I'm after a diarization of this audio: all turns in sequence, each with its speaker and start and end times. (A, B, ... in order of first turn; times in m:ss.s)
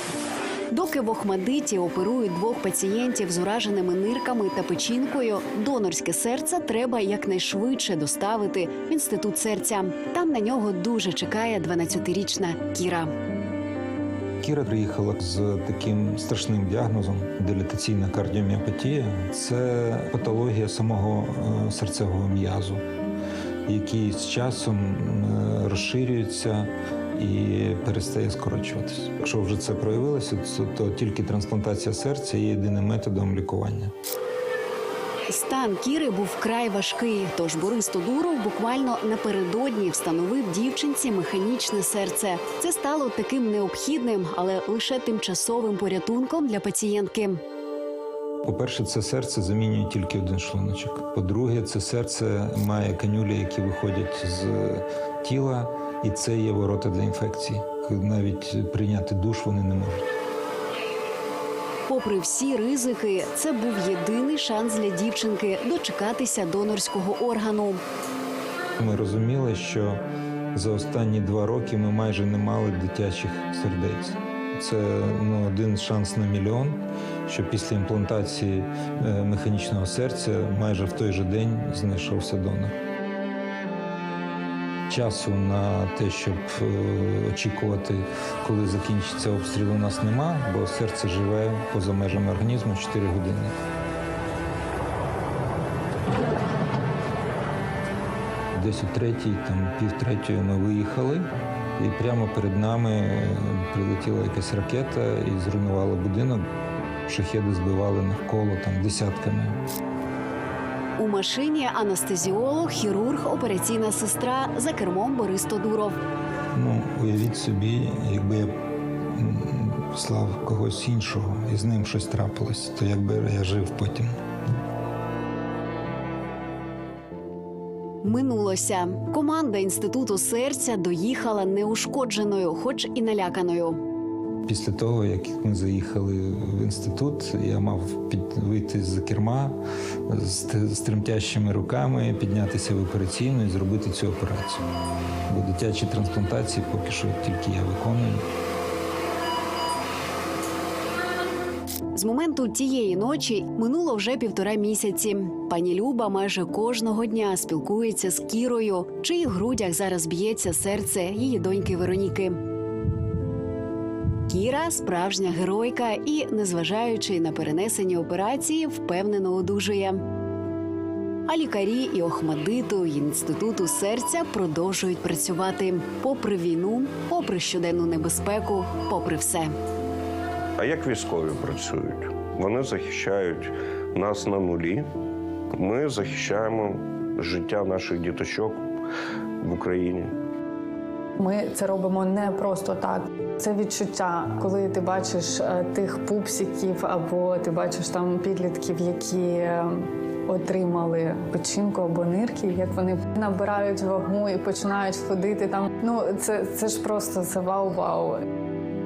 0:00.7-0:13.1 A
0:14.4-0:22.8 B
0:23.6-0:33.9 B
0:35.3-0:47.4 A
0:48.4-1:00.1 B
1:01.9-1:07.8 A
1:08.8-1:10.0 B
1:10.5-1:22.7 B
1:24.9-1:33.5 B
1:38.5-1:41.3 B
1:41.8-1:46.4 B
1:47.1-1:49.6 B
1:51.0-1:56.0 A
1:56.5-1:58.5 B
1:59.1-2:04.1 B
2:08.0-2:13.8 A
2:14.4-2:19.6 B
2:20.1-2:24.6 B
2:25.3-2:28.2 B
2:31.9-2:42.4 A
2:44.3-2:50.0 A
2:51.3-2:59.5 A
3:00.6-3:04.9 C
3:05.6-3:08.6 C
3:09.4-3:10.1 C
3:11.2-3:28.2 D